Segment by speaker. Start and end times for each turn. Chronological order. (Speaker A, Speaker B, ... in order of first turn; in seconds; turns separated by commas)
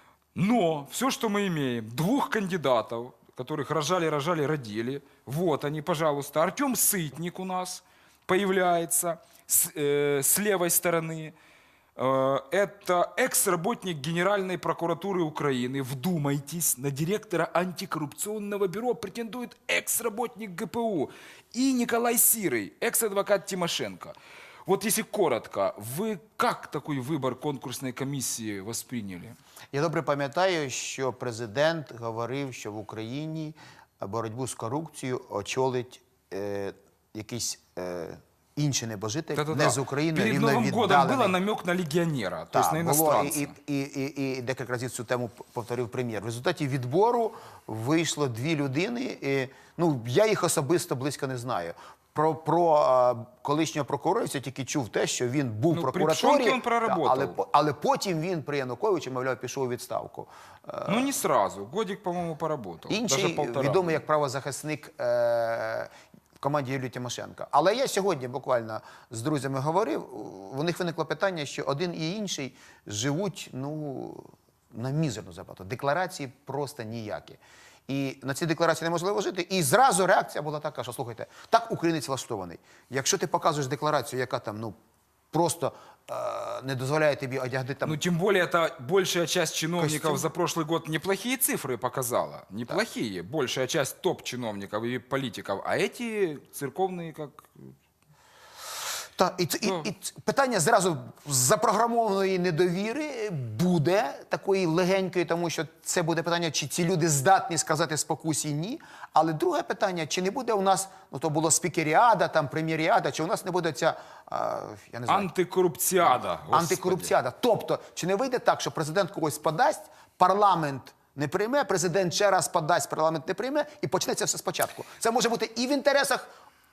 Speaker A: 0.3-11.3, Speaker A: 12.0-29.4, Speaker B: 29.7-41.4, Speaker A: 39.4-43.5, Speaker B: 42.5-61.1, Speaker A: 55.7-57.4, Speaker A: 60.9-64.0, Speaker B: 62.9-84.7, Speaker B: 85.3-88.0, Speaker A: 87.8-97.7, Speaker B: 89.8-90.3, Speaker B: 99.2-115.3, Speaker A: 115.1-117.1, Speaker B: 116.0-126.3